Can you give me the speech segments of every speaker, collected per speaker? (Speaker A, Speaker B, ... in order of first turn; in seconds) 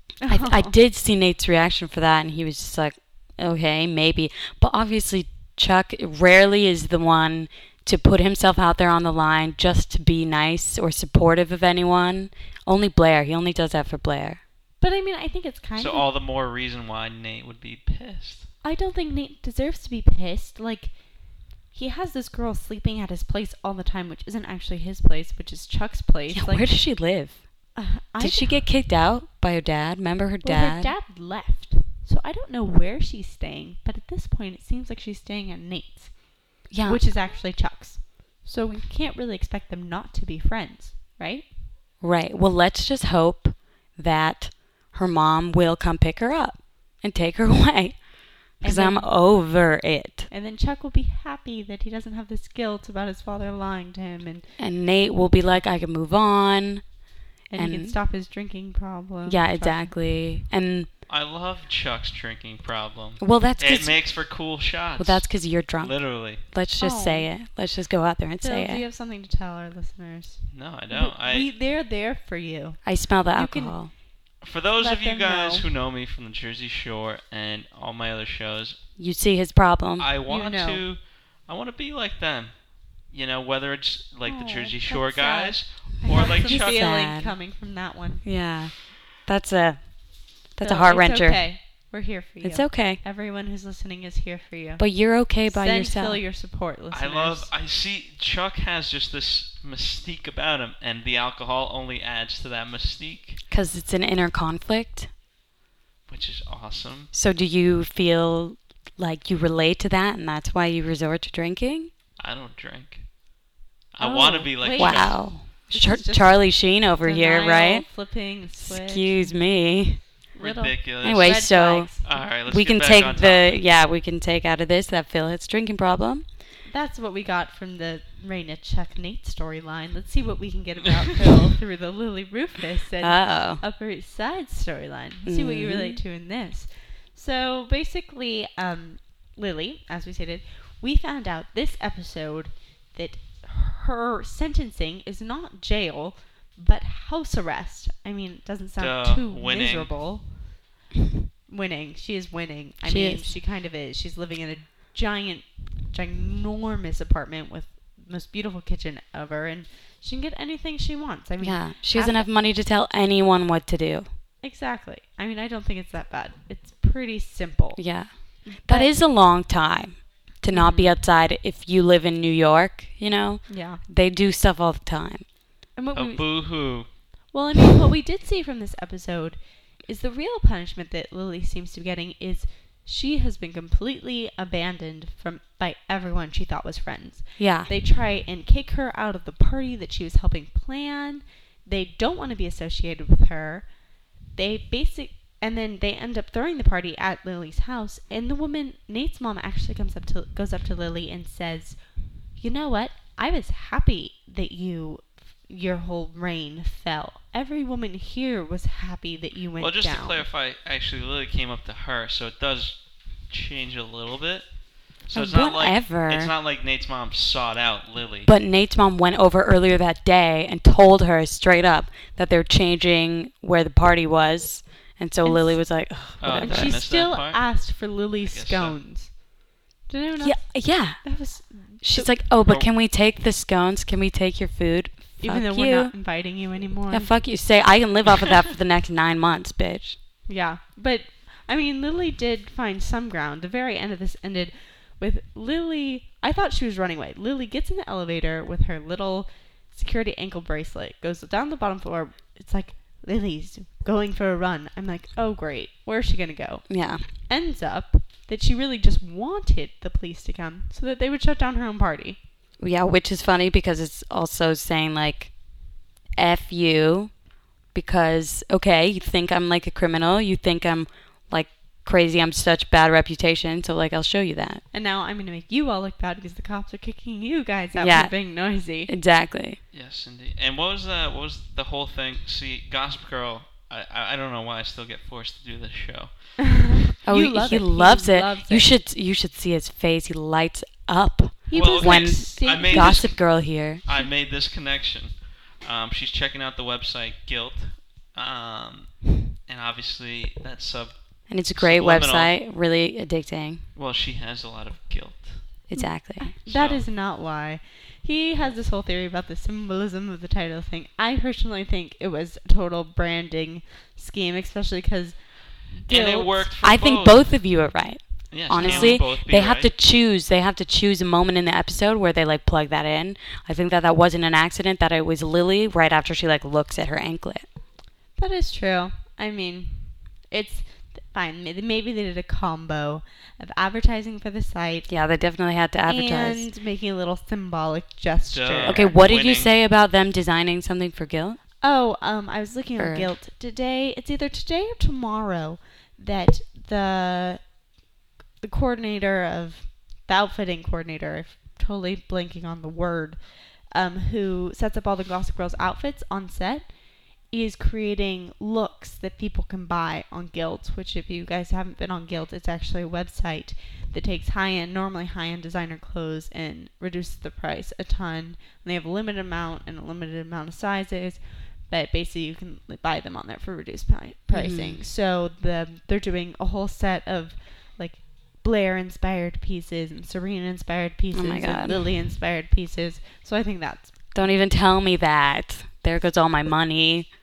Speaker A: 0.2-0.7, 14.8-16.1, 18.6-20.9, 21.7-26.8, 27.8-28.6, 30.4-41.5, 48.6-49.1, 50.3-54.5, 57.5-59.9, 66.8-67.3, 68.4-73.9, 74.8-75.7, 80.3-80.8, 84.2-88.2, 90.6-97.5, 114.0-119.4, 120.4-122.1, 126.7-150.4, 151.5-162.3, 164.4-168.9, 170.5-171.0, 173.5-173.8, 175.8-176.8, 177.3-193.8, 194.3-210.2, 225.2-225.8, 226.3-229.2, 229.9-232.1, 235.2-237.1, 240.3-262.2, 274.7-278.9, 286.6-288.7, 291.5-293.2, 305.8-316.5, 318.6-319.0, 328.2-334.9, 335.9-338.9, 341.6-347.6, 348.4-383.9
Speaker B: 0.3-14.4, 26.3-27.5, 28.2-30.9, 36.7-37.0, 42.0-50.3, 54.6-57.0, 57.5-58.0, 59.3-60.9, 63.2-64.2, 65.0-68.8, 72.8-73.9, 79.0-80.1, 86.1-87.3, 88.2-91.5, 92.4-93.0, 94.8-96.2, 103.5-105.1, 107.1-111.9, 114.8-117.9, 118.6-120.0, 121.0-126.3, 133.0-133.6, 135.2-136.0, 152.8-153.4, 161.4-164.1, 167.8-175.3, 187.4-187.7, 215.1-216.3, 218.2-226.8, 230.2-231.2, 231.8-235.9, 236.9-240.0, 256.7-257.1, 262.6-265.3, 266.2-267.1, 267.7-274.6, 277.8-278.3, 278.9-279.6, 287.1-293.8, 301.3-303.6, 305.7-306.3, 316.6-327.5, 334.9-336.5, 338.6-341.4, 342.8-343.1, 374.3-374.8, 381.1-381.8, 384.1-387.1
Speaker C: 15.8-18.5, 61.1-66.4, 70.5-71.5, 74.4-78.8, 80.0-86.8, 96.9-103.4, 106.1-107.1, 112.2-113.0, 113.9-115.2, 120.4-121.5, 122.0-123.6, 148.8-150.0, 175.9-176.9, 209.6-218.3, 226.2-228.8, 279.7-286.6, 291.5-302.3, 303.8-305.5, 306.5-306.9, 315.9-317.3, 318.3-319.7, 338.3-339.5